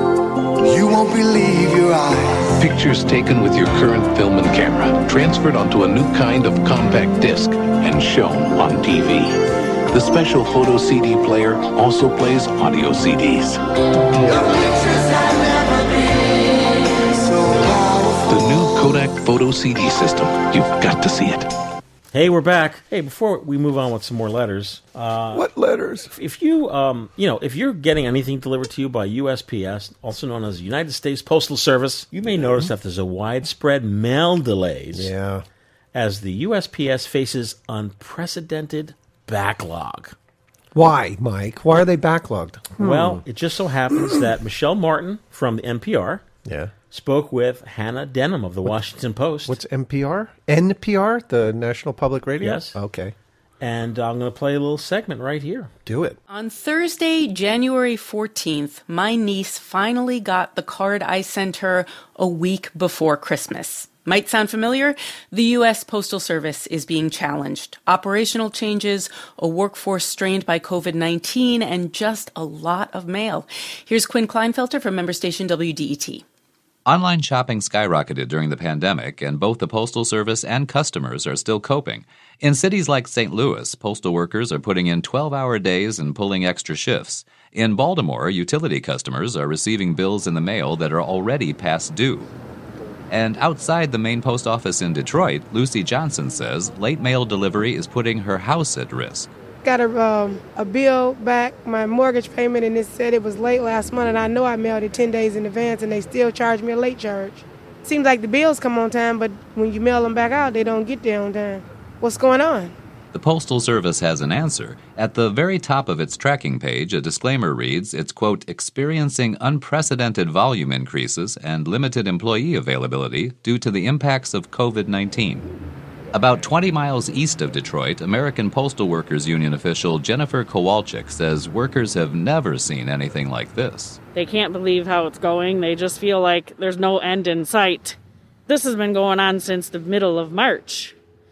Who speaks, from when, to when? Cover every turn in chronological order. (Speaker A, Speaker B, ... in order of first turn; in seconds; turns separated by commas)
Speaker A: 0.6-2.5, Speaker B: 2.6-13.6, Speaker A: 14.5-16.0, Speaker A: 17.4-18.1, Speaker B: 18.2-21.5, Speaker C: 22.1-25.4, Speaker D: 25.3-26.1, Speaker C: 26.1-35.1, Speaker D: 34.9-35.4, Speaker C: 35.9-40.1, Speaker D: 40.7-43.2, Speaker C: 42.8-46.2, Speaker D: 46.4-46.7, Speaker C: 46.9-49.6, Speaker D: 49.5-53.1, Speaker C: 52.4-52.8, Speaker C: 53.6-55.7, Speaker D: 55.9-56.2, Speaker E: 56.3-76.2, Speaker F: 76.8-92.3, Speaker F: 93.1-99.3, Speaker G: 99.6-112.7, Speaker F: 113.1-125.5, Speaker F: 126.1-134.0, Speaker H: 134.1-140.9